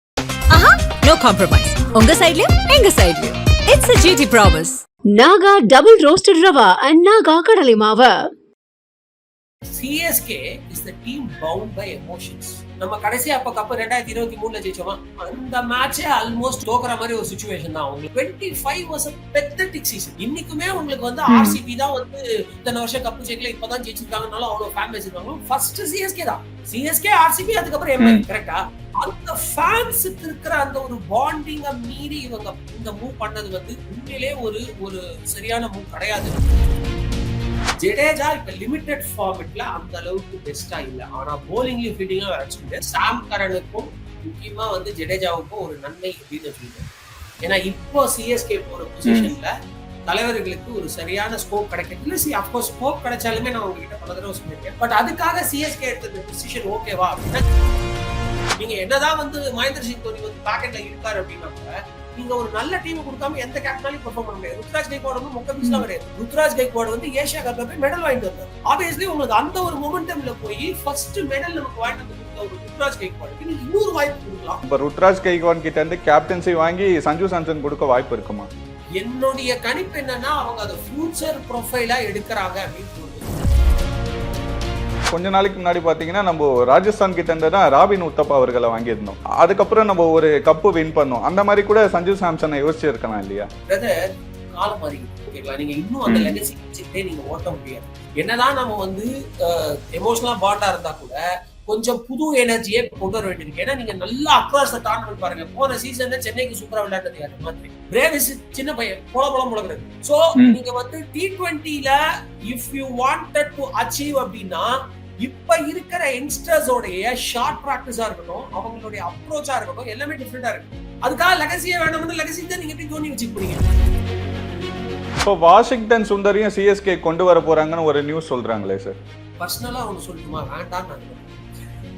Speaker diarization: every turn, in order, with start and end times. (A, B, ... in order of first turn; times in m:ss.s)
0:00.5-0:04.8 A
0:02.7-0:03.2 B
0:05.1-0:08.1 B
0:09.7-0:36.4 C
0:21.3-0:21.6 D
0:28.0-0:28.2 D
0:37.8-0:46.9 C
0:47.4-0:49.5 C
0:49.0-0:49.3 D
0:50.1-0:57.4 C
0:58.6-1:14.6 C
1:14.6-1:18.5 D
1:19.0-1:23.3 C
1:25.1-1:33.5 D
1:33.7-1:33.9 C
1:34.5-1:52.0 C
1:36.0-1:36.3 D
1:52.5-2:03.6 C
2:05.2-2:09.0 D
2:09.4-2:11.3 C